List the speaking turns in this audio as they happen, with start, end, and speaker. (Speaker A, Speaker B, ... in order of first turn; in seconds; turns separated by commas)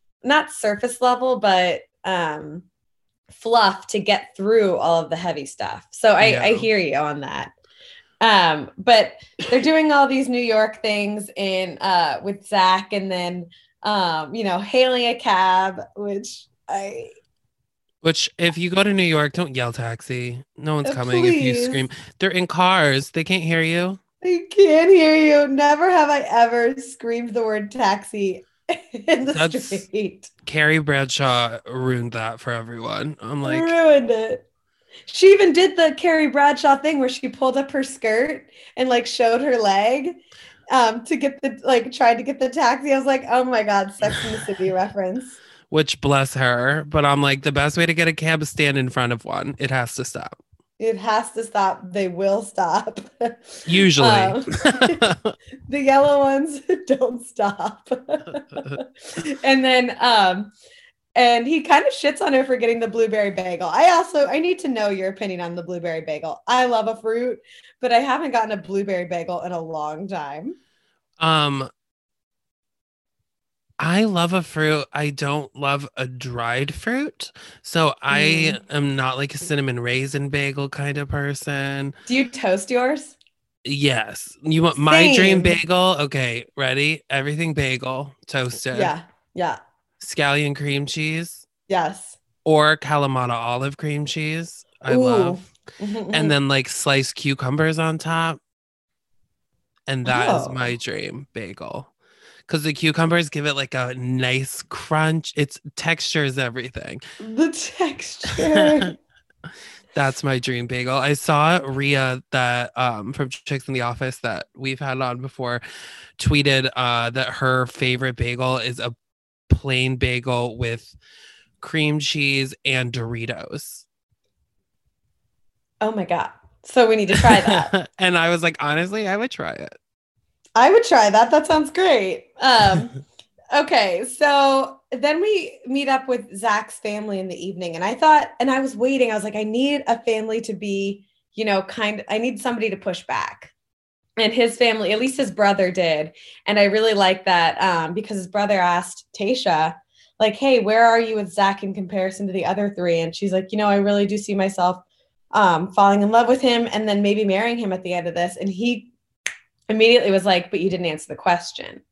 Speaker A: 0.2-2.6, Speaker A: 3.3-7.5, Speaker B: 6.2-6.7, Speaker A: 8.2-17.1, Speaker B: 18.0-24.0, Speaker A: 20.8-21.8, Speaker A: 24.2-30.3, Speaker B: 29.3-29.8, Speaker B: 30.4-33.7, Speaker A: 33.4-34.4, Speaker A: 35.1-40.2, Speaker A: 40.7-45.4, Speaker B: 45.7-50.4, Speaker A: 50.8-55.0, Speaker B: 53.7-55.3, Speaker A: 55.7-60.5, Speaker A: 61.1-70.5, Speaker B: 71.2-71.7, Speaker B: 73.8-82.0, Speaker A: 78.1-78.6, Speaker A: 82.1-83.2, Speaker B: 83.7-88.9, Speaker A: 84.8-85.5, Speaker A: 88.7-89.6, Speaker B: 90.0-91.5, Speaker A: 91.7-92.2, Speaker B: 92.4-95.4, Speaker A: 94.9-96.3, Speaker B: 96.1-98.4, Speaker B: 99.9-101.9, Speaker A: 100.0-100.6, Speaker B: 102.5-107.0, Speaker A: 107.2-108.9, Speaker B: 109.9-115.6, Speaker B: 116.2-118.9, Speaker B: 119.5-120.9, Speaker B: 121.6-123.9, Speaker A: 125.8-127.7, Speaker B: 127.5-129.8, Speaker A: 130.6-132.9, Speaker A: 133.5-143.5, Speaker A: 144.2-158.9, Speaker A: 159.7-161.8